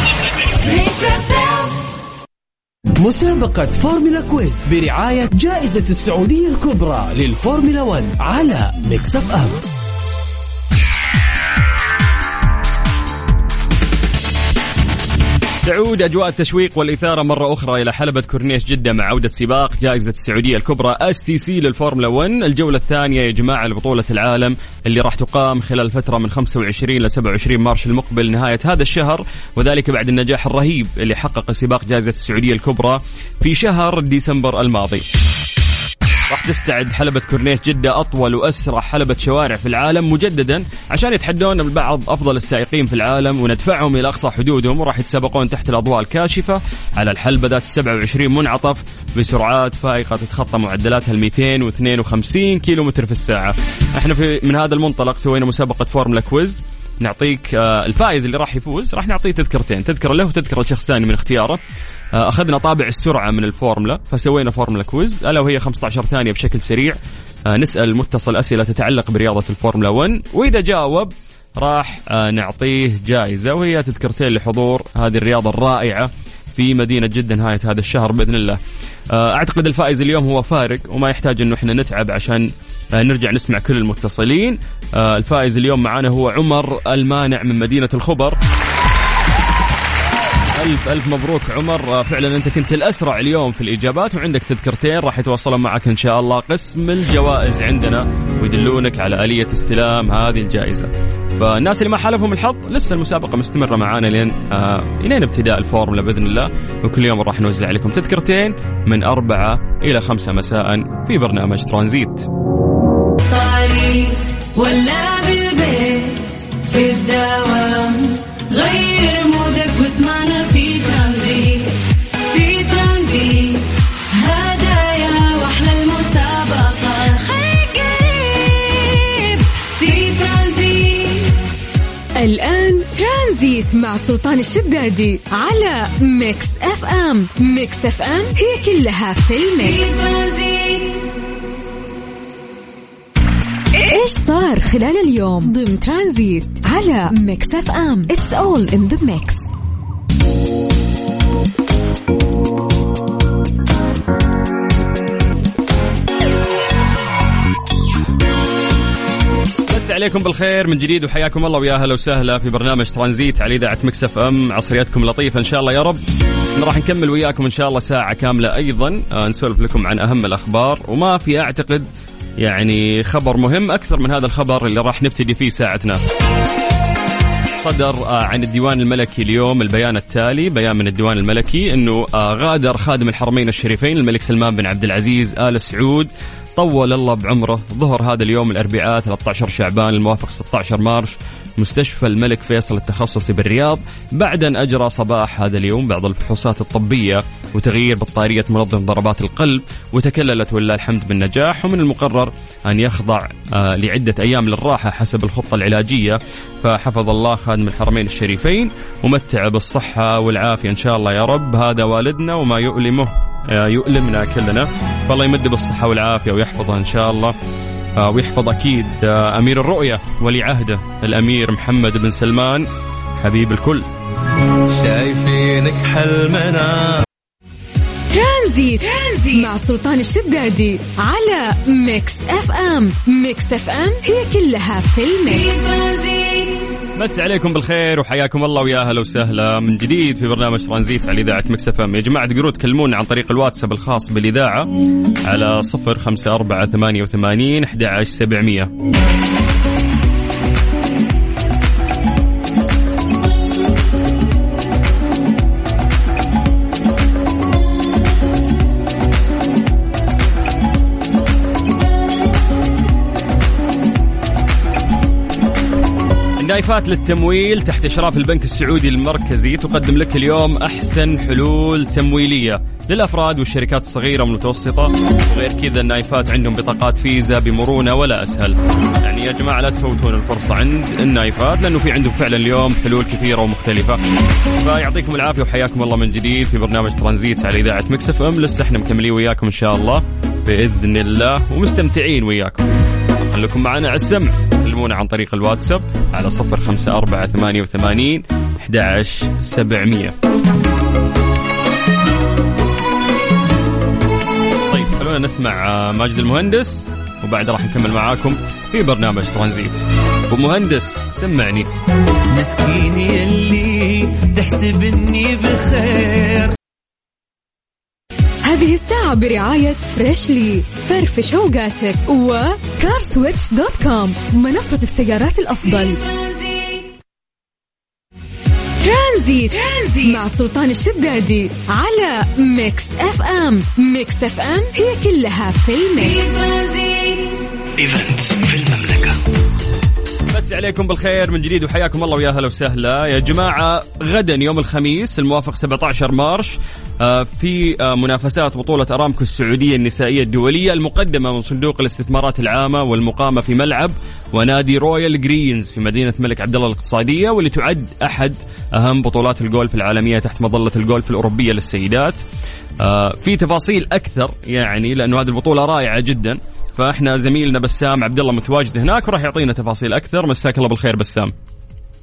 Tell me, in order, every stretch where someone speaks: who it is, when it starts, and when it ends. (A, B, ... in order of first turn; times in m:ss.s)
0:03.0-0:09.6 A
0:15.6-0:35.0 B
0:36.3-1:01.6 B
1:02.1-1:07.0 B
1:07.5-1:18.6 B
1:19.1-1:28.4 B
1:30.6-1:52.3 B
1:53.3-2:01.7 C
2:02.3-2:11.3 C
2:12.2-2:19.8 D
2:19.6-2:21.0 C
2:23.7-2:29.5 D
2:39.7-2:46.0 B
2:46.6-2:51.9 B
2:52.4-2:56.0 B
2:57.6-3:37.3 B
3:38.0-3:42.7 B
3:43.2-3:43.9 B
3:44.7-3:47.0 E
3:48.1-3:55.5 D
3:55.3-3:56.6 C
3:57.0-4:04.7 B
4:05.3-4:08.7 B
4:26.4-4:44.0 B
4:44.6-5:00.1 B
5:04.7-5:11.7 B
5:12.3-5:16.5 E
5:18.4-5:26.0 D
5:25.7-5:26.9 C
5:28.8-5:36.2 D
5:36.0-5:37.4 C
5:37.8-5:39.1 E
5:40.3-6:02.2 B
6:02.8-6:11.3 B